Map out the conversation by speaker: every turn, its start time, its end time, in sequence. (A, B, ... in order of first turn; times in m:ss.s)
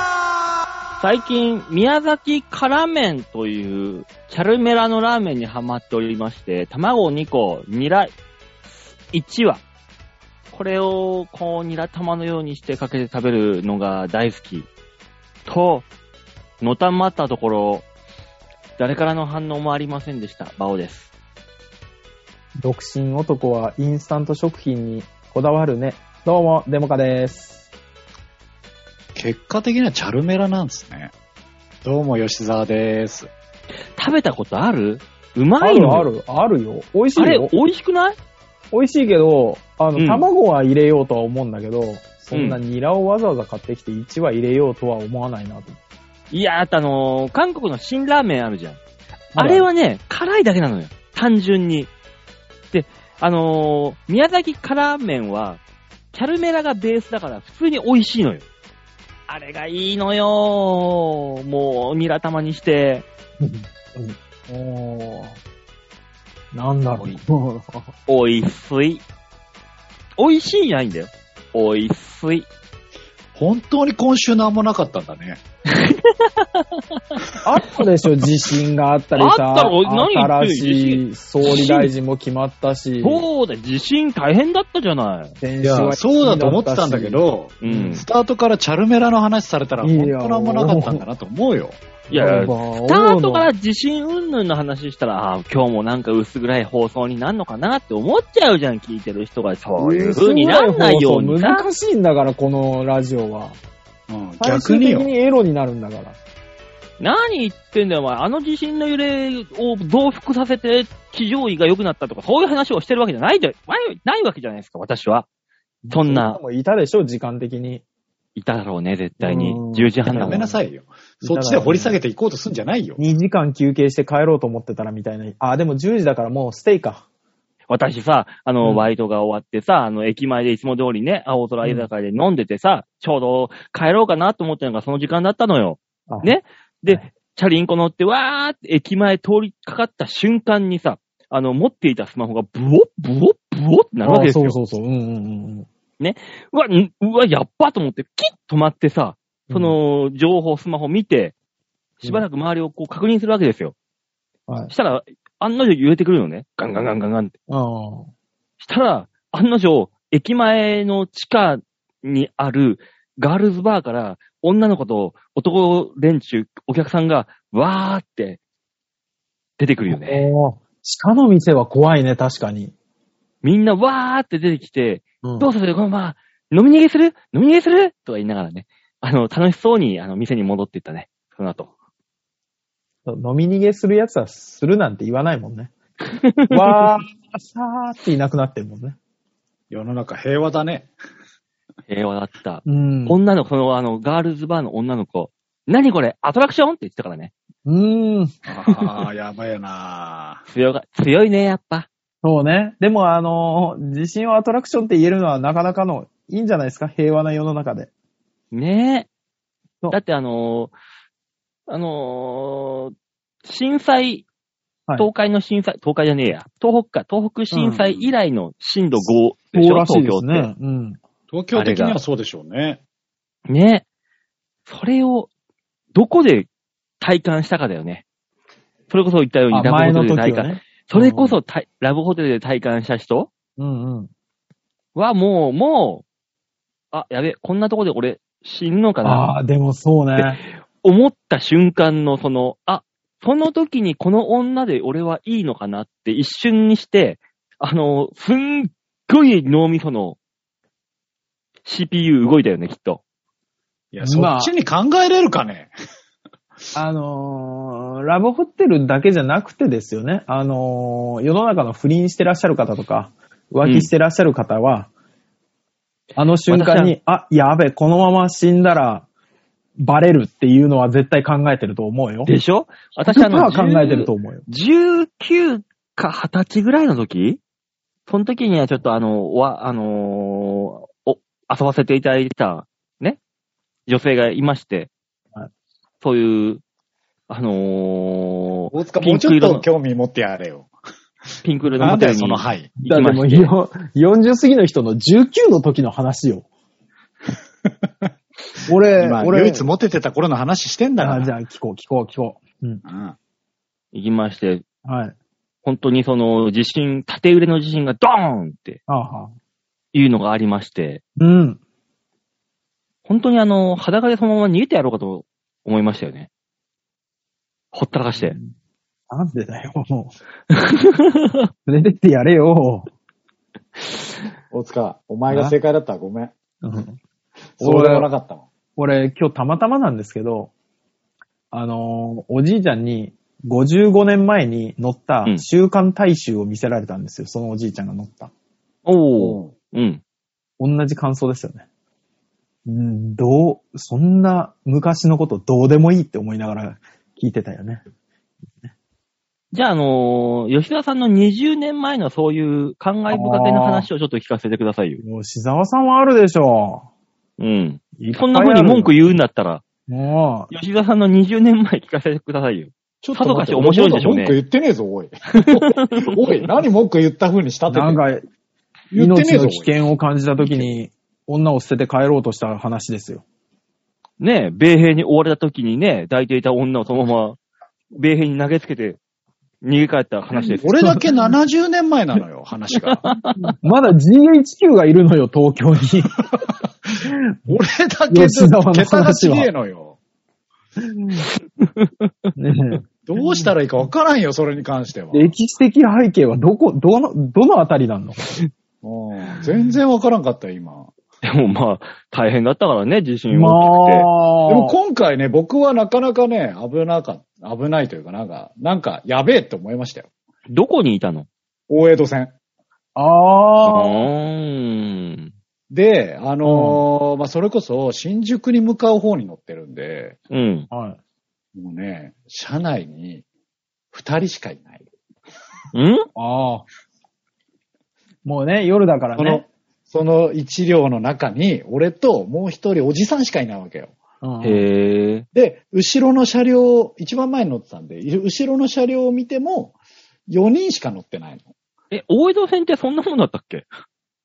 0:01.0-0:08.1 A
0:09.1-0:09.6 A
0:10.5-0:14.7 A
0:15.5-0:15.9 A
0:16.6-0:17.8 A
0:18.8-0:21.1 A
0:22.6-0:27.6 B
0:29.1-0:31.1 C
0:31.8-0:33.3 C
0:34.0-0:36.1 A
0:35.6-0:37.5 B
0:37.2-0:38.2 A
0:38.7-0:45.8 B
0:40.0-0:40.2 A
0:42.3-0:42.6 A
0:46.3-0:48.8 A
0:49.3-0:49.7 B
0:49.3-0:51.9 A
0:52.7-0:55.6 A
0:56.1-0:58.4 A
0:59.3-1:03.0 A
1:03.4-1:05.4 B
1:06.5-1:07.9 B
1:08.1-1:09.0 A
1:10.2-1:12.5 A
1:13.3-1:15.4 C
1:15.7-1:17.2 A
1:17.4-1:23.2 B
1:19.2-1:21.9 A
1:23.0-1:25.3 A
1:25.4-1:27.9 B
1:25.6-1:31.9 C
1:27.6-1:28.0 A
1:29.8-1:31.0 B
1:32.1-1:33.5 B
1:32.1-1:41.7 A
1:39.8-1:43.6 B
1:44.1-1:45.1 C
1:44.4-1:46.2 B
1:47.0-1:55.3 A
1:55.8-1:57.8 B
1:55.9-1:56.4 A
1:58.4-2:00.4 A
1:59.2-2:00.6 B
2:00.1-2:03.0 C
2:01.2-2:02.0 B
2:03.0-2:07.0 B
2:07.7-2:24.6 A
2:08.6-2:08.9 B
2:16.1-2:16.3 B
2:24.0-2:25.7 B
2:26.0-2:31.3 A
2:29.5-2:29.8 B
2:32.0-2:33.8 A
2:34.7-2:37.3 A
2:37.5-2:38.1 B
2:38.6-2:48.4 A
2:49.6-2:50.3 A
2:49.9-2:52.7 B
2:53.4-3:01.7 A
2:55.2-2:55.5 B
3:03.1-3:05.7 B
3:06.1-3:06.8 A
3:06.5-3:09.0 B
3:09.7-3:10.9 C
3:11.9-3:17.3 A
3:12.7-3:13.2 B
3:17.7-3:18.3 B
3:18.5-3:20.4 C
3:20.5-3:21.9 A
3:22.2-3:27.9 B
3:28.5-3:29.1 A
3:29.9-3:30.7 A
3:31.7-3:34.2 A
3:35.0-3:40.5 A
3:37.5-3:38.0 B
3:39.5-3:41.0 B
3:41.3-3:42.8 C
3:41.5-3:42.0 A
3:43.5-3:43.8 A
3:44.7-3:45.3 A
3:45.9-3:46.5 A
3:47.0-3:48.0 A
3:48.9-3:53.3 A
3:49.5-3:51.4 B
3:53.6-3:54.1 B
3:54.9-3:56.0 A
3:56.9-3:59.3 A
3:59.0-4:00.4 B
4:00.2-4:10.2 A
4:11.7-4:13.0 A
4:13.9-4:15.7 C
4:14.0-4:14.5 B
4:16.8-4:24.9 B
4:26.2-4:29.1 B
4:26.5-4:26.9 A
4:29.8-4:32.3 B
4:32.2-4:37.4 A
4:33.1-4:34.4 B
4:38.1-4:43.2 A
4:43.9-4:44.9 A
4:46.0-4:46.6 A
4:47.3-4:49.7 A
4:48.7-4:50.7 C
4:51.4-4:53.5 A
4:51.8-4:52.7 C
4:52.8-4:56.4 B
4:58.7-4:59.7 B
4:59.0-5:01.3 C
5:01.0-5:02.8 B
5:02.8-5:03.2 C
5:03.9-5:04.6 A
5:04.8-5:05.1 B
5:05.6-5:08.8 A
5:08.9-5:09.4 B
5:09.9-5:11.0 A
5:11.2-5:11.6 B
5:13.1-5:16.3 A
5:17.7-5:18.4 A
5:18.2-5:18.5 B
5:19.1-5:20.1 B
5:20.5-5:21.5 A
5:21.7-5:22.9 B
5:24.5-5:26.3 C
5:26.6-5:27.0 B
5:27.6-5:28.5 C
5:27.6-5:28.1 B
5:28.8-5:30.5 B
5:31.5-5:38.3 B
5:38.9-5:40.0 A
5:39.2-5:39.5 C
5:40.6-5:41.7 B
5:42.7-5:47.8 B
5:49.5-5:55.0 A
5:53.1-5:53.9 B
5:55.0-5:56.9 B
5:57.4-5:59.6 A
5:58.0-5:59.1 B
5:59.9-6:00.5 B
6:00.5-6:04.4 A
6:03.0-6:08.0 C
6:05.3-6:06.0 A
6:07.7-6:08.2 B
6:08.9-6:09.7 C
6:08.9-6:13.2 B
6:10.4-6:10.8 C
6:14.2-6:17.4 A
6:17.9-6:19.0 A
6:19.6-6:20.8 A
6:20.6-6:23.0 C
6:23.0-6:23.5 A
6:23.6-6:26.2 B
6:26.3-6:30.0 C
6:27.1-6:27.5 B
6:28.1-6:29.5 B
6:30.8-6:31.3 B
6:31.6-6:32.3 A
6:32.4-6:32.8 B
6:33.1-6:35.3 C
6:35.1-6:38.4 B
6:38.8-6:40.9 C
6:41.2-6:44.1 A
6:43.3-6:44.8 B
6:44.5-6:50.1 C
6:50.5-6:51.3 A
6:51.7-6:52.3 C
6:53.0-6:54.1 B
6:53.6-6:55.3 A
6:55.7-7:00.2 C
6:56.4-6:56.8 B
7:00.3-7:00.7 A
7:00.7-7:01.0 B
7:01.6-7:03.2 C
7:03.9-7:04.9 C
7:05.7-7:06.1 A
7:06.2-7:06.7 B
7:08.2-7:09.4 B
7:09.2-7:13.9 C
7:14.2-7:14.7 B
7:14.4-7:15.2 A
7:15.3-7:19.7 C
7:20.3-7:21.5 C
7:21.9-7:23.7 A